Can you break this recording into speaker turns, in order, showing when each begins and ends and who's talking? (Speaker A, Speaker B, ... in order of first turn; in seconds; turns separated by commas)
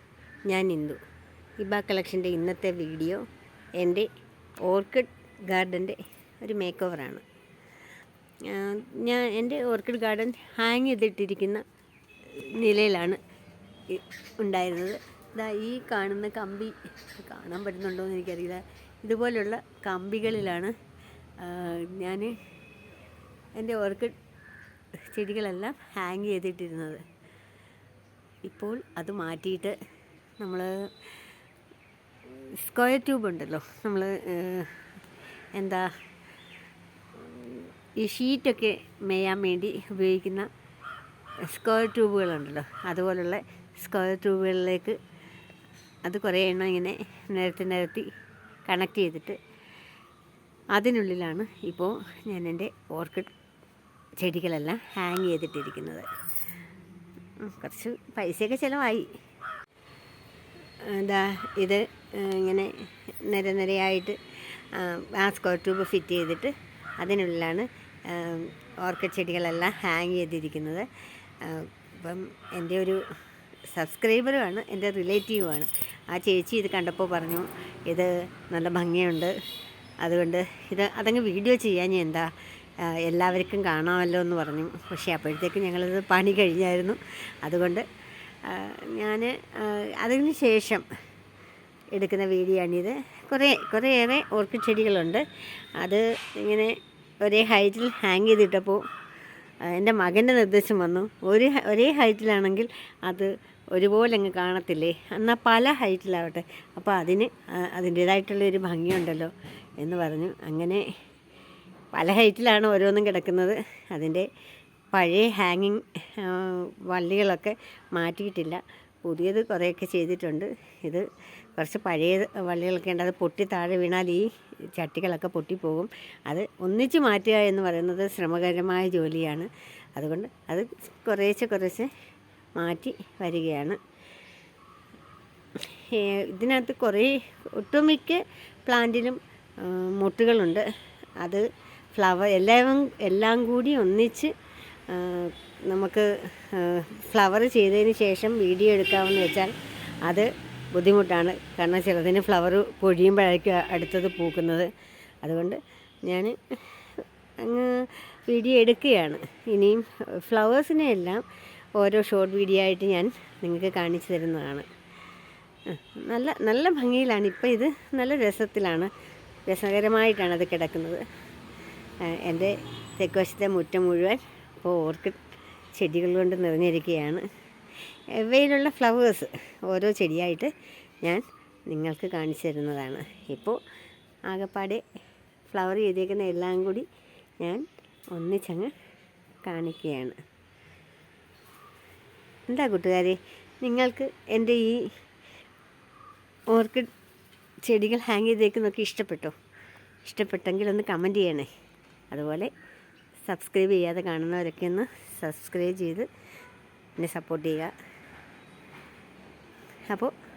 Speaker A: 0.5-1.0, Speaker A: 1.6-3.2, Speaker A: 3.8-4.1, Speaker A: 4.6-7.2, Speaker A: 8.4-11.6, Speaker A: 12.3-13.2, Speaker A: 13.9-20.7, Speaker A: 21.4-22.3, Speaker A: 23.6-24.1, Speaker A: 25.0-27.0, Speaker A: 28.4-29.8, Speaker A: 30.4-30.7, Speaker A: 32.3-34.8, Speaker A: 35.5-35.9, Speaker A: 37.1-40.5, Speaker A: 41.5-45.0, Speaker A: 46.0-48.1, Speaker A: 48.6-49.4, Speaker A: 50.7-53.3, Speaker A: 54.2-56.0, Speaker A: 57.4-59.1, Speaker A: 60.8-70.9, Speaker A: 71.4-73.0, Speaker A: 73.7-79.3, Speaker A: 80.0-87.8, Speaker A: 88.4-90.8, Speaker A: 91.9-95.2, Speaker A: 95.8-98.8, Speaker A: 99.6-110.8, Speaker A: 111.9-114.3, Speaker A: 114.9-131.9, Speaker A: 132.6-133.8, Speaker A: 135.7-140.6, Speaker A: 141.9-144.3, Speaker A: 144.9-154.7, Speaker A: 155.2-161.2, Speaker A: 161.8-164.7, Speaker A: 165.7-168.9, Speaker A: 169.5-171.0, Speaker A: 172.1-175.2, Speaker A: 175.7-177.2, Speaker A: 178.1-180.5, Speaker A: 181.0-183.6, Speaker A: 184.3-184.8, Speaker A: 185.5-186.8, Speaker A: 187.4-188.7, Speaker A: 189.4-190.2, Speaker A: 192.5-194.9, Speaker A: 196.5-196.9, Speaker A: 197.6-199.3, Speaker A: 200.0-201.5, Speaker A: 202.1-202.5, Speaker A: 203.2-206.1, Speaker A: 207.0-207.7